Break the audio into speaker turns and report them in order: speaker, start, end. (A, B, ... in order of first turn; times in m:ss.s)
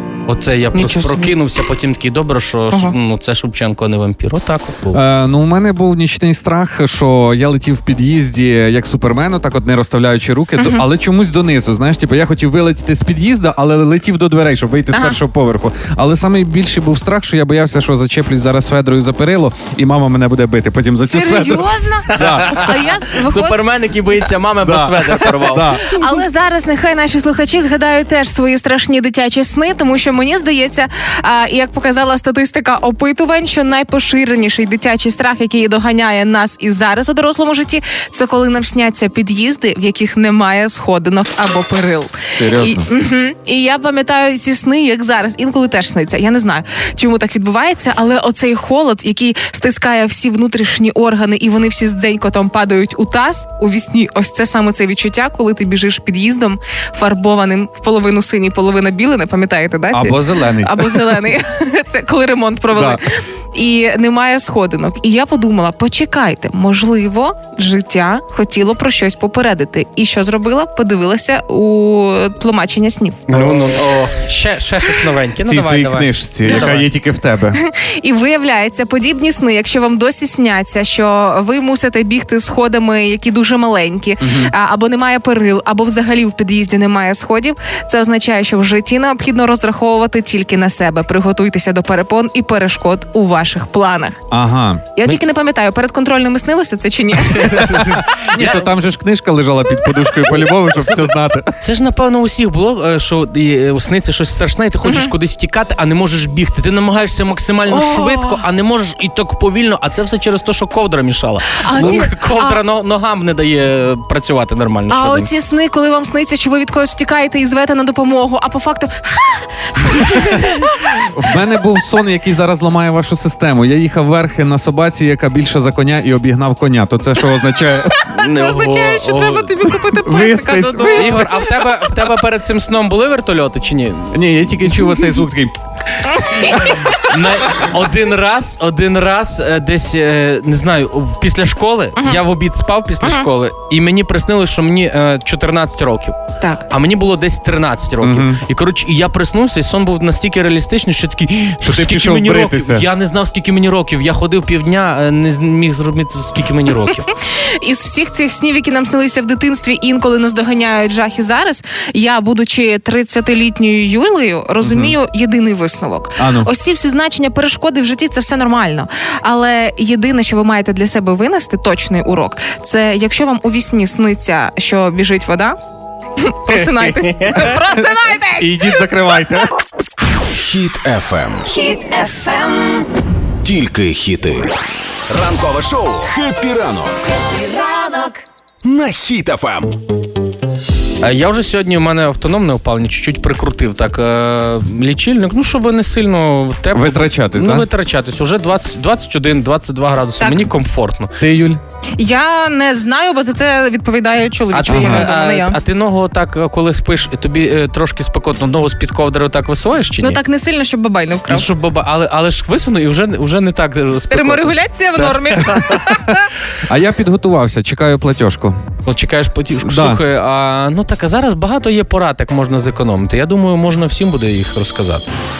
0:00.3-0:05.0 A
0:00.7-0:01.3 B
0:04.9-0:22.7 C
0:10.6-0:10.8 B
0:14.9-0:15.2 B
0:21.0-0:23.6 B
0:22.1-0:25.8 A
0:24.6-0:25.8 C
0:25.8-1:13.3 B
0:42.4-0:42.8 C
0:59.9-1:01.3 C
1:02.7-1:03.0 C
1:13.3-1:16.9 A
1:15.4-1:17.6 C
1:17.6-1:34.2 B
1:24.2-1:24.5 C
1:34.3-1:34.9 C
1:35.0-1:37.7 B
1:37.3-1:38.7 A
1:37.6-1:41.5 C
1:40.2-1:41.0 A
1:41.6-1:55.3 A
1:44.8-1:45.1 B
1:47.7-1:48.4 B
1:51.6-1:52.6 B
1:54.9-2:00.8 B
2:01.1-2:08.0 C
2:08.1-2:11.4 B
2:08.1-2:09.7 A
2:09.9-2:11.3 C
2:10.9-2:14.2 A
2:14.1-2:15.5 C
2:16.1-2:16.9 B
2:16.4-2:26.2 A
2:22.0-2:22.2 B
2:23.0-2:23.3 B
2:26.4-2:26.7 B
2:26.7-2:37.1 A
2:28.0-2:28.4 C
2:31.6-2:32.9 C
2:37.4-2:55.6 B
2:44.6-2:45.0 C
2:46.2-2:46.5 C
2:56.2-2:58.8 B
2:56.5-2:57.4 A
2:57.7-2:59.5 C
3:00.3-3:01.5 D
3:01.5-3:02.9 E
3:03.4-3:04.5 D
3:05.1-3:06.9 D
3:07.3-3:08.2 E
3:08.6-3:09.8 D
3:11.0-3:21.1 A
3:16.7-3:17.7 C
3:20.2-3:20.5 B
3:21.2-3:21.6 C
3:22.0-3:25.6 B
3:24.5-3:30.2 A
3:24.7-3:25.1 C
3:30.0-3:31.5 B
3:31.3-3:35.8 A
3:34.1-3:36.3 B
3:36.7-3:38.6 C
3:38.8-3:45.0 A
3:39.6-3:40.0 C